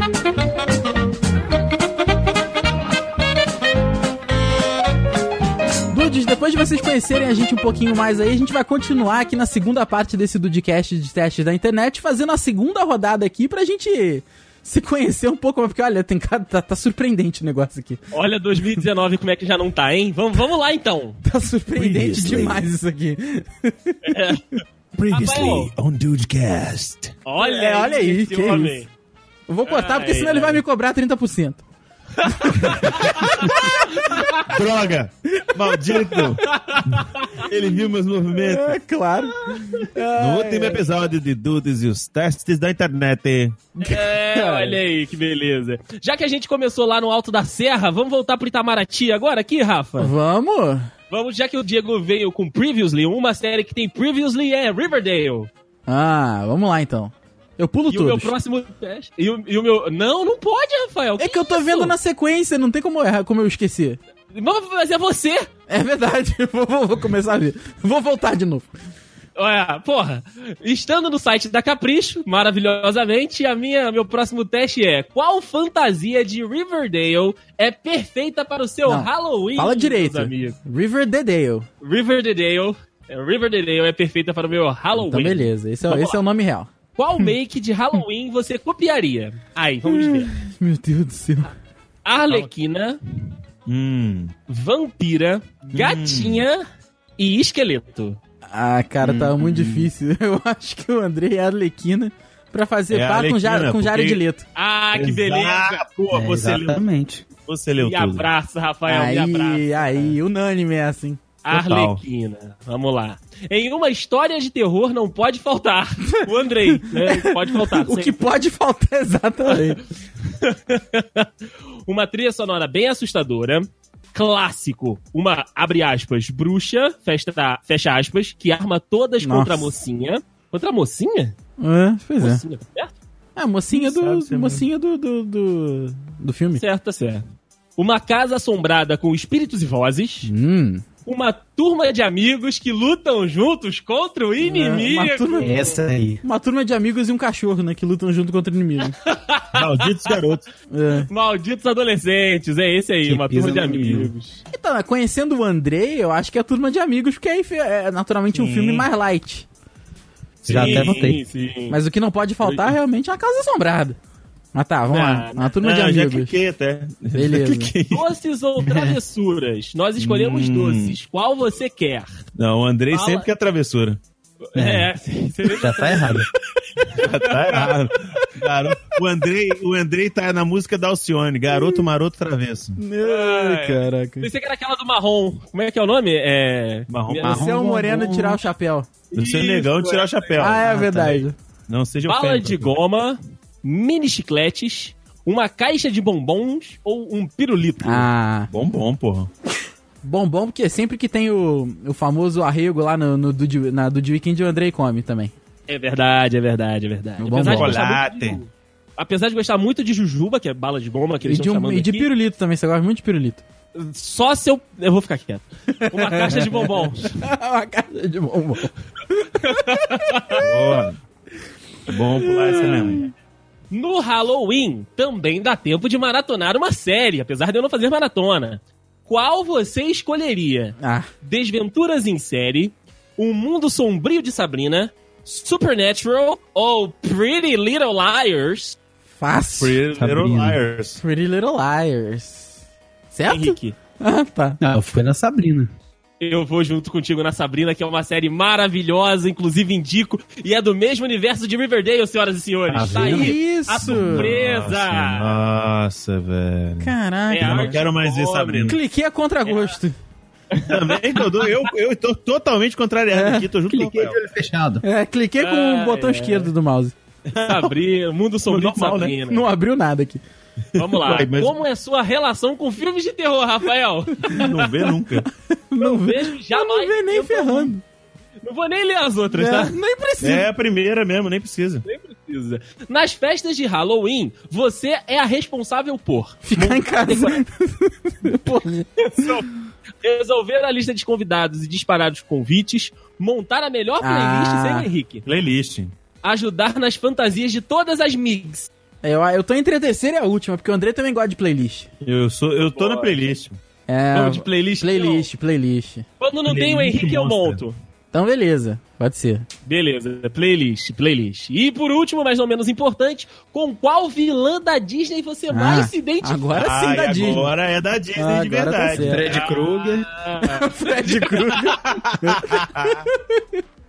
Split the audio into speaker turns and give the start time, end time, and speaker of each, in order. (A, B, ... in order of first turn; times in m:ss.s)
0:05.9-0:18.0 A
0:18.1-0:21.2 B
0:21.2-0:24.4 A
0:21.8-0:22.6 C
0:24.1-0:24.6 B
0:25.0-0:27.2 C
0:25.1-0:25.7 B
0:27.3-0:28.9 B
0:27.4-0:28.8 A
0:29.5-0:31.6 A
0:29.7-0:30.6 B
0:32.2-0:34.4 B
0:32.2-0:34.4 A
0:32.8-0:33.8 C
0:34.4-0:36.5 C
0:35.4-0:37.0 A
0:36.4-0:37.4 B
0:37.3-0:38.8 C
0:38.4-0:40.8 A
0:40.2-0:43.7 C
0:43.8-0:44.8 A
0:43.8-0:50.1 B
0:50.0-0:50.9 A
0:51.1-0:55.5 B
0:55.9-0:58.3 A
0:57.9-1:02.0 B
1:01.2-1:04.0 A
1:04.3-1:05.5 B
1:05.7-1:08.7 A
1:09.4-1:20.6 B
1:18.9-1:21.7 A
1:21.8-1:26.2 B
1:25.0-1:26.7 A
1:27.0-1:30.3 B
1:29.9-1:31.5 A
1:32.0-1:33.0 B
1:33.7-1:34.3 C
1:34.5-1:36.6 B
1:35.7-1:36.4 C
1:37.2-1:38.2 B
1:38.5-1:44.5 A
1:39.0-1:39.9 D
1:42.9-1:44.2 C
1:44.6-1:45.8 B
1:44.9-1:46.8 C
1:46.1-1:47.3 D
1:47.5-1:48.3 C
1:47.8-1:50.2 B
1:48.9-1:51.2 A
1:51.4-1:58.3 B
1:51.5-1:52.0 C
1:56.7-1:59.8 A
1:59.5-1:59.8 B
2:00.3-2:01.3 B
2:01.9-2:11.4 B
2:09.2-2:09.8 A
2:11.6-2:12.4 A
2:12.2-2:12.9 B
2:13.4-2:16.6 A
2:13.7-2:14.7 C
2:16.6-2:17.2 B
2:17.8-2:20.3 B
2:20.2-2:20.8 A
2:21.1-2:25.7 B
2:24.4-2:25.6 A
2:25.4-2:26.2 D
2:26.2-2:29.0 A
2:29.0-2:30.2 B
2:29.5-2:30.5 C
2:30.7-2:31.1 A
2:31.1-2:34.4 B
2:33.0-2:34.1 D
2:34.5-2:39.5 A
2:38.3-2:38.9 C
2:40.4-2:41.1 C
2:40.4-2:41.8 B
2:40.5-2:41.2 D
2:41.7-2:44.0 A
2:42.5-2:42.7 B
2:44.6-2:46.4 A
2:44.9-2:45.5 B
2:45.6-2:48.1 C
2:47.1-2:47.7 A
2:47.9-2:52.1 B
2:48.6-2:49.0 D
2:50.0-2:51.0 D
2:52.4-2:54.0 C
2:52.9-2:53.3 B
2:54.4-2:56.3 B
2:54.6-2:54.9 D
2:55.5-2:56.3 D
2:56.8-2:57.9 B
2:56.9-3:02.8 C
3:01.5-3:01.8 A
3:02.8-3:04.3 A
3:03.0-3:07.4 B
3:06.9-3:07.3 C
3:07.2-3:08.4 D
3:07.3-3:08.9 A
3:09.1-3:11.2 B
3:09.2-3:12.8 C
3:10.4-3:11.4 A
3:12.1-3:18.1 B
3:17.8-3:18.5 A
3:18.5-3:19.3 C
3:20.0-3:25.3 A
3:25.7-3:32.1 B
3:27.2-3:27.8 A
3:27.3-3:28.4 C
3:31.2-3:33.4 A
3:33.8-3:37.3 B
3:35.8-3:40.5 A
3:39.4-3:40.4 B
3:40.4-3:41.0 C
3:41.9-3:43.0 C
3:42.1-3:43.1 A
3:43.7-3:58.8 B
3:50.8-3:51.1 A
3:59.2-3:59.8 A
3:59.6-4:01.0 C
4:00.0-4:00.6 D
4:01.0-4:02.6 A
4:03.1-4:04.6 A
4:03.3-4:03.8 B
4:04.6-4:05.7 D
4:06.2-4:15.4 B
4:12.7-4:13.4 D
4:12.9-4:14.4 A
4:13.8-4:18.8 C
4:16.8-4:17.8 A
4:17.3-4:18.8 B
4:18.7-4:20.0 A
4:19.5-4:19.8 B
4:20.5-4:21.3 B
4:20.6-4:24.2 C
4:23.1-4:23.5 A
4:23.7-4:24.8 D
4:24.8-4:27.0 A
4:25.4-4:26.5 B
4:27.3-4:27.7 C
4:27.4-4:29.5 B
4:28.5-4:29.2 C
4:29.3-4:30.2 A
4:30.8-4:34.7 B
4:30.8-4:31.5 C
4:34.3-4:35.3 C
4:35.2-4:37.8 A
4:35.8-4:37.8 B
4:38.4-4:39.7 B
4:39.4-4:40.5 A
4:40.2-4:41.8 C
4:41.9-4:47.4 B
4:46.5-4:49.4 A
4:49.0-4:49.5 B
4:50.0-4:55.2 B
4:54.0-4:54.9 A
4:55.2-4:55.9 C
4:56.2-4:58.7 B
4:59.0-5:01.9 A
5:02.0-5:03.6 C
5:02.6-5:03.2 B
5:03.9-5:06.0 A
5:04.1-5:05.3 B
5:06.2-5:07.8 B
5:06.4-5:07.6 C
5:08.1-5:09.5 A
5:09.7-5:16.4 B
5:15.5-5:17.5 A
5:16.5-5:19.4 C
5:18.2-5:19.3 A
5:18.9-5:20.1 D
5:19.3-5:21.6 B
5:20.4-5:23.6 A
5:21.9-5:23.0 C